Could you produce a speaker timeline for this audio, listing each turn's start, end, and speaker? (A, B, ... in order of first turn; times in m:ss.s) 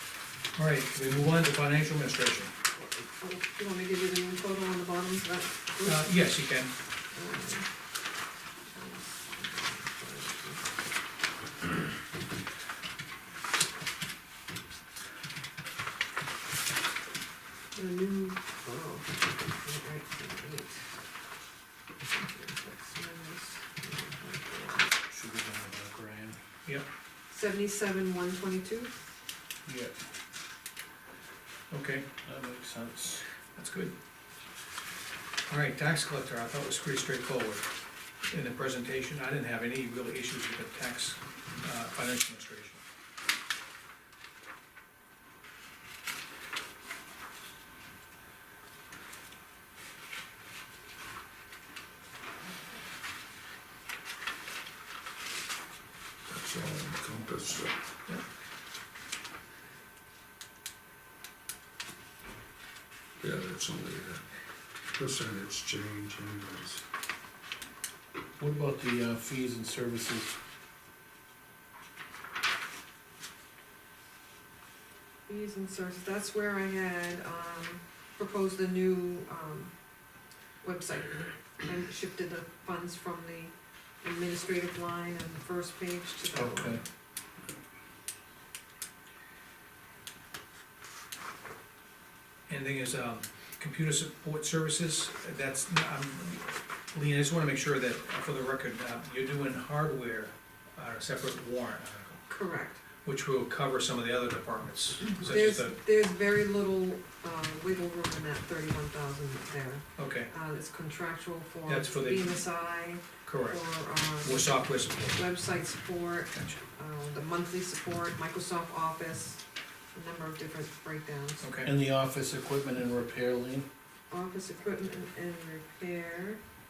0:00.6-0:02.5 A
0:02.8-0:06.1 B
0:05.8-0:06.7 A
0:07.1-0:07.7 B
0:08.7-0:10.6 B
0:17.7-0:20.8 B
0:22.1-0:24.9 B
0:25.1-0:26.4 C
0:27.3-0:28.9 B
0:29.6-0:29.9 C
0:31.7-0:32.0 A
0:32.2-0:33.2 C
0:33.5-0:33.9 A
0:35.5-0:37.6 A
0:38.3-0:42.8 A
0:56.3-0:57.8 D
1:03.2-1:04.2 D
1:04.9-1:06.8 D
1:08.4-1:10.4 C
1:15.3-1:19.7 B
1:20.6-1:26.8 B
1:26.3-1:26.8 C
1:32.5-1:42.2 A
1:42.3-1:42.8 B
1:43.0-1:45.8 A
1:45.0-1:59.4 B
1:50.0-1:50.3 A
1:51.7-1:52.4 A
1:53.2-1:53.6 A
1:54.2-1:55.2 A
1:59.9-2:01.4 B
2:01.4-2:01.7 A
2:01.6-2:03.7 C
2:04.1-2:06.4 B